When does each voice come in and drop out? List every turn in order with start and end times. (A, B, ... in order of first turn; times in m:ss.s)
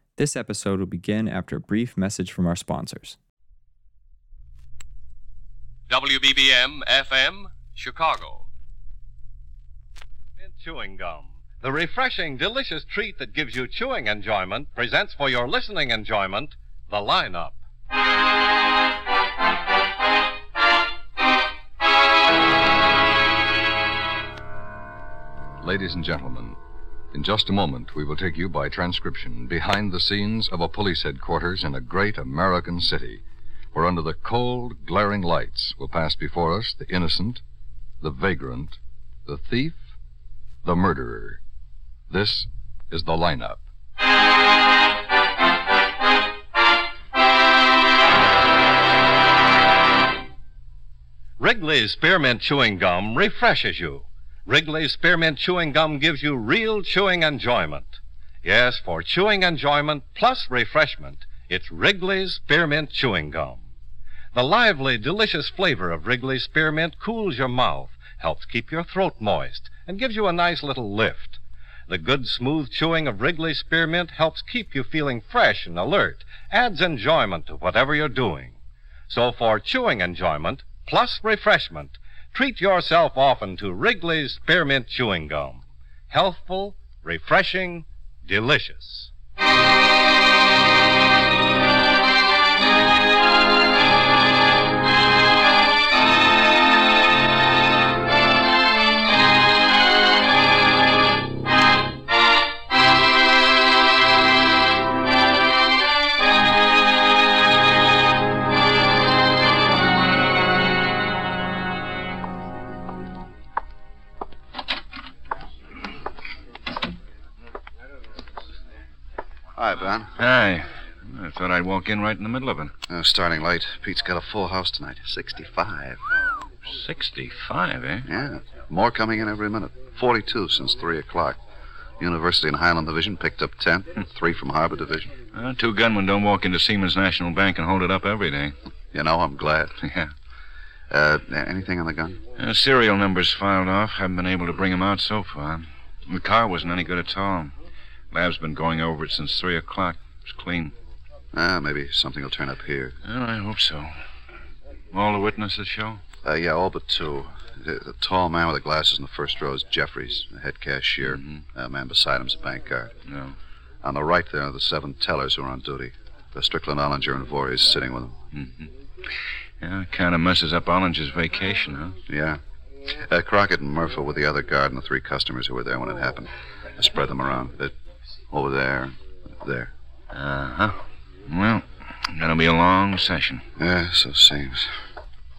0:00.2-0:03.2 A
0:05.9-0:08.5 B
0:10.4-0:17.6 C
0:25.6-0:26.6 D
0:27.1-0:33.2 D
0:33.7-0:37.4 D
0:38.0-0:39.8 D
0:40.6-0:41.4 D
0:42.1-0:43.6 D
0:51.4-1:03.6 C
1:04.3-1:18.6 C
1:19.1-1:29.1 C
1:59.5-2:00.1 E
2:00.2-2:02.7 F
2:02.9-2:06.0 E
2:06.6-2:08.1 F
2:08.0-2:11.4 E
2:12.0-2:15.1 E
2:15.3-2:18.5 F
2:18.9-2:19.8 E
2:19.8-2:20.1 F
2:20.9-2:22.2 E
2:22.4-2:27.5 F
2:28.1-2:30.7 F
2:31.3-2:33.0 E
2:33.0-2:33.9 F
2:34.9-2:36.0 F
2:36.2-2:43.0 E
2:41.0-2:41.4 F
2:43.0-2:43.4 F
2:43.8-2:48.2 E
2:48.3-2:52.0 F
2:52.1-2:57.7 E
2:58.3-2:59.7 E
3:00.1-3:03.4 F
3:03.6-3:04.7 E